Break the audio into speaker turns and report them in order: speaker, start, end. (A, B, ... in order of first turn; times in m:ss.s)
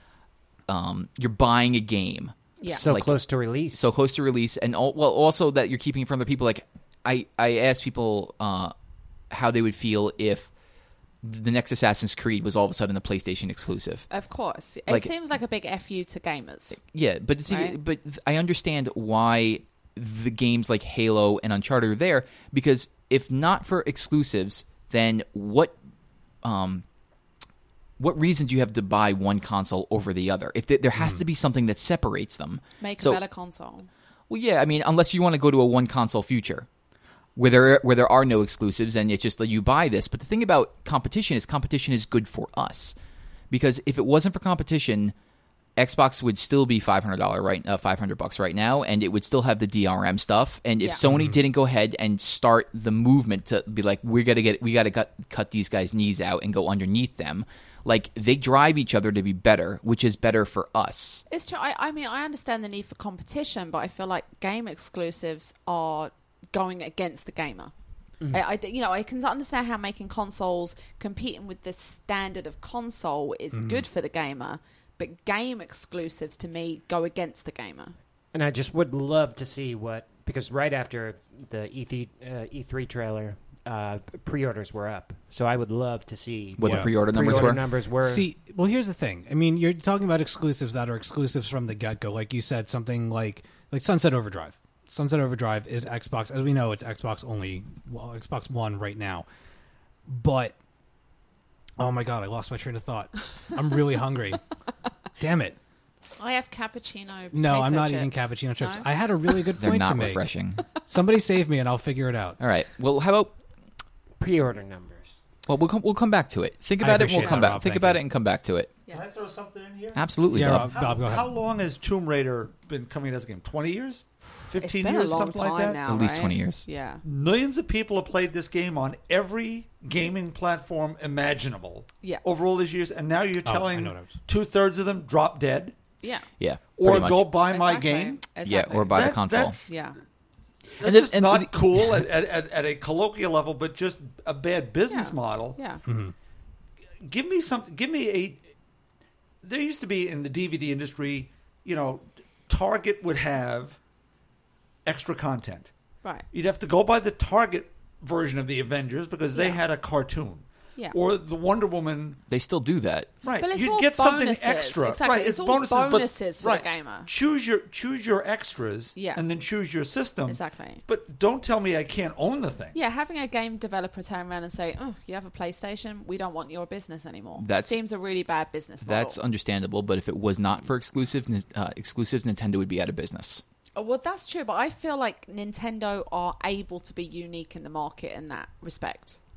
0:00.7-0:03.2 A
0:02.6-0:02.9 B
0:02.7-0:03.9 C
0:03.7-0:08.7 A
0:09.3-0:10.5 A
0:11.2-0:14.1 A
0:14.1-0:16.8 B
0:16.8-0:25.7 A
0:17.5-0:17.8 B
0:26.4-0:26.8 A
0:28.0-0:33.2 A
0:31.0-0:31.2 D
0:32.8-0:33.9 B
0:34.3-0:36.7 A
0:37.4-0:43.0 A
0:43.5-0:45.1 A
0:45.8-1:01.2 A
0:51.0-0:51.4 D
1:01.3-1:07.7 B
1:08.3-1:17.9 B
1:13.5-1:13.8 D
1:18.3-1:28.3 C
1:26.6-1:27.6 A
1:26.6-1:39.2 D
1:40.1-1:40.6 D
1:41.8-1:44.4 D
1:45.2-1:45.6 D
1:46.2-1:49.5 B
1:47.3-1:50.3 D
1:49.6-1:50.6 A
1:50.8-1:52.4 D
1:52.4-1:53.3 A
1:54.2-1:55.2 C
1:55.5-1:58.7 A
1:56.8-1:58.0 D
1:58.9-1:59.2 B
1:58.9-2:05.8 E
1:59.9-2:00.7 A
2:00.3-2:01.3 D
2:04.6-2:07.0 B
2:05.8-2:06.6 A
2:07.0-2:15.8 E
2:13.4-2:14.1 D
2:16.0-2:16.3 B
2:16.4-2:17.3 A
2:16.8-2:18.2 E
2:17.4-2:20.0 B
2:18.4-2:19.6 A
2:18.9-2:19.7 E
2:20.8-2:25.6 E
2:20.8-2:21.9 A
2:24.9-2:25.8 B
2:25.8-2:26.1 D
2:27.0-2:28.5 E
2:29.4-2:33.8 E
2:34.8-2:35.7 E
2:36.3-2:42.2 E
2:39.3-2:39.6 B
2:42.3-2:43.1 A
2:43.2-2:52.8 E
2:43.4-2:47.1 B
2:48.9-2:49.2 B
2:50.3-2:50.8 B
2:52.7-2:59.2 B
2:57.4-2:57.8 A
2:58.8-3:03.4 A
3:03.8-3:09.2 B